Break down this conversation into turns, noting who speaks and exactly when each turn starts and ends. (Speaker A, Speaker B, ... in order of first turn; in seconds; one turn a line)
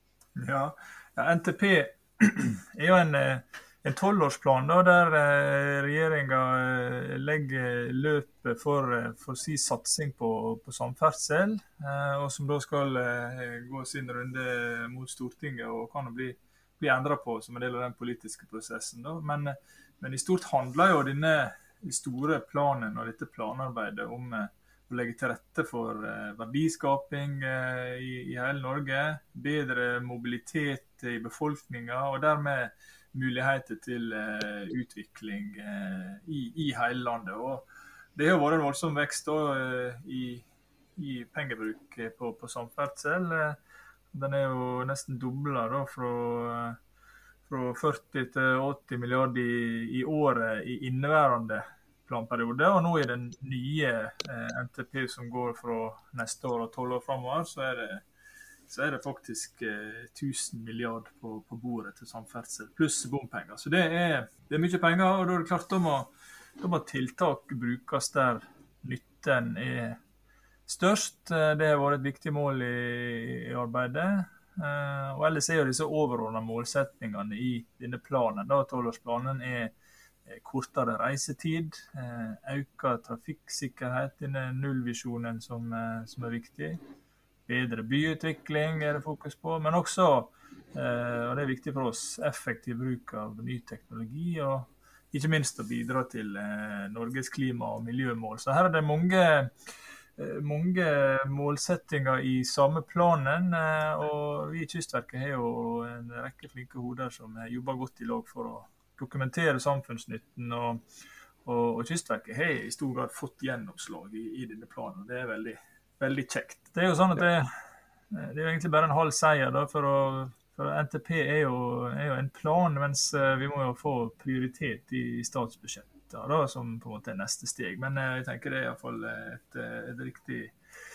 Speaker A: 0.4-40.4
Speaker A: 41.0-43.6
Speaker A: 44.1-46.8
Speaker A: 47.5-58.0
Speaker A: 58.7-70.0
Speaker A: 70.7-79.7
Speaker A: 80.3-86.8
Speaker A: 87.5-99.5
Speaker A: 100.2-110.8
Speaker A: 111.4-117.5
Speaker A: 118.1-130.5